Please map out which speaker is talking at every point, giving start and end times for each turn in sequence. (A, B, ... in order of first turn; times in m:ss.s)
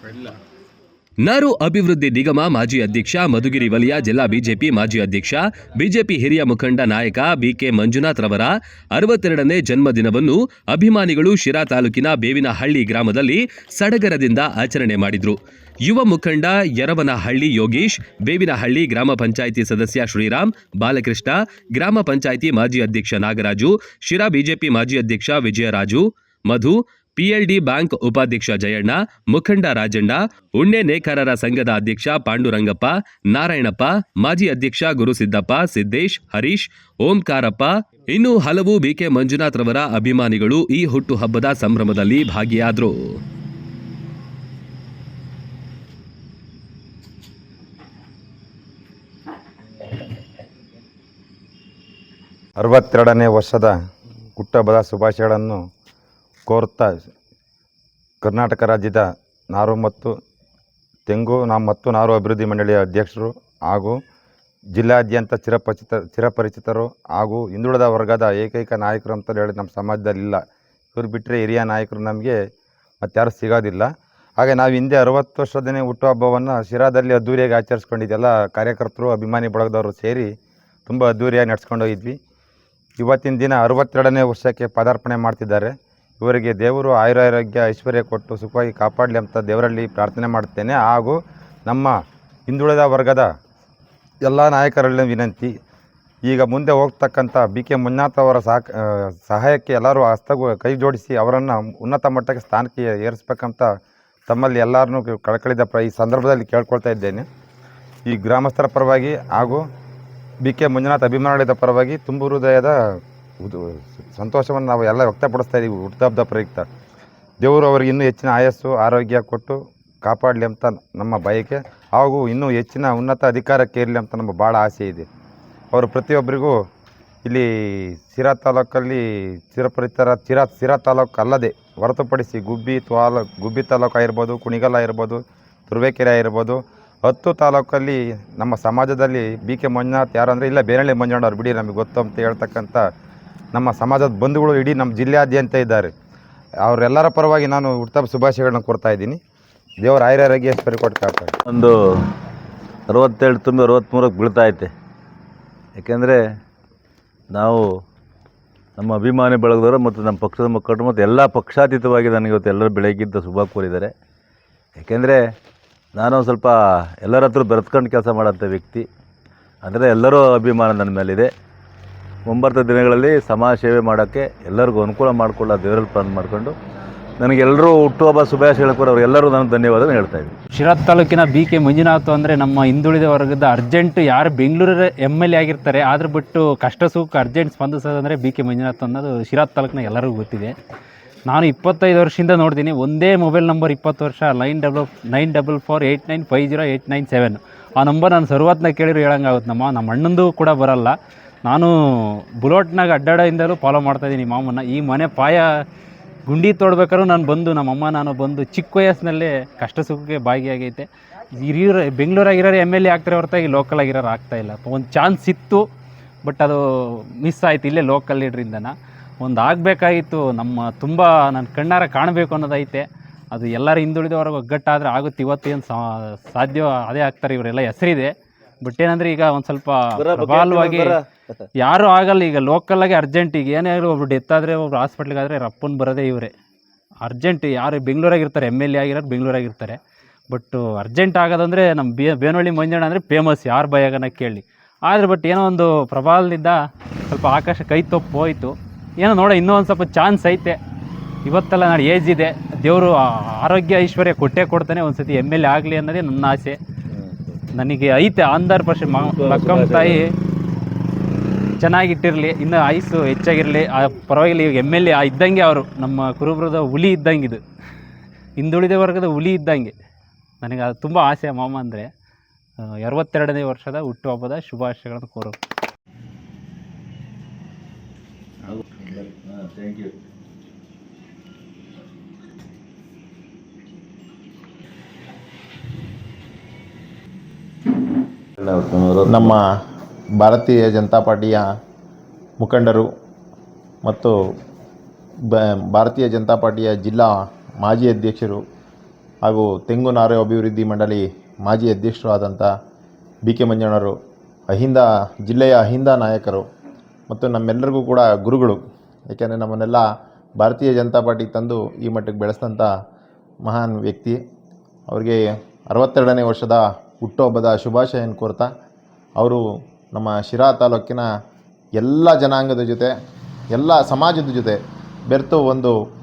0:01.2-0:42.9 A
0:52.6-0:53.7 B
0:54.4-0:55.6 B
0:56.5-0:56.9 B
0:58.2-1:00.1 B
1:01.1-1:04.0 B
1:04.8-1:10.4 B
1:10.9-1:12.4 B
1:13.0-1:13.9 B
1:14.4-1:20.3 B
1:20.9-1:22.2 B
1:23.0-1:31.2 B
1:31.7-1:31.9 B
1:32.5-1:33.3 B
1:34.2-1:35.5 B
1:36.3-1:43.7 B
1:44.3-1:47.2 B
1:48.0-1:49.6 B
1:50.4-1:52.7 B
1:53.4-1:56.7 B
1:57.4-2:05.1 B
2:05.7-2:06.5 B
2:07.2-2:09.0 B
2:09.5-2:15.2 B
2:15.7-2:22.8 B
2:23.5-2:25.9 B
2:26.6-2:29.2 B
2:29.8-2:31.3 B
2:31.5-2:31.7 C
2:32.9-2:34.7 C
2:35.8-2:36.2 C
2:37.3-2:37.6 C
2:38.8-2:43.9 C
2:44.8-2:45.2 C
2:45.9-2:48.8 C
2:49.6-2:51.3 C
2:52.3-2:56.5 C
2:57.2-3:00.3 C
3:00.5-3:10.5 D
3:11.3-3:25.5 D
3:26.3-3:30.9 D
3:31.4-3:35.6 D
3:36.2-3:51.0 D
3:50.0-3:51.0 C
3:51.6-3:56.3 D
3:57.0-3:59.8 D
4:00.3-4:10.6 D
4:11.2-4:16.6 D
4:16.9-4:17.3 C
4:17.5-4:20.1 D
4:18.9-4:20.0 C
4:21.6-4:27.4 D
4:28.4-4:29.7 D
4:30.4-4:31.9 D
4:32.6-4:35.4 D
4:38.9-4:39.9 C
4:48.4-4:49.3 C
4:49.0-4:49.4 E
4:50.2-4:51.4 E
4:52.4-4:52.9 E
4:53.8-4:54.1 E
4:55.3-4:57.1 E
4:57.6-4:58.4 E
4:59.2-5:02.5 E
5:03.3-5:03.9 E
5:04.5-5:06.4 E
5:07.1-5:08.6 E
5:09.1-5:09.8 E
5:10.4-5:12.7 E
5:13.4-5:14.2 E
5:14.9-5:15.2 E
5:15.7-5:18.5 E
5:19.9-5:21.0 E
5:21.8-5:22.9 E
5:23.5-5:24.6 E
5:25.1-5:25.7 E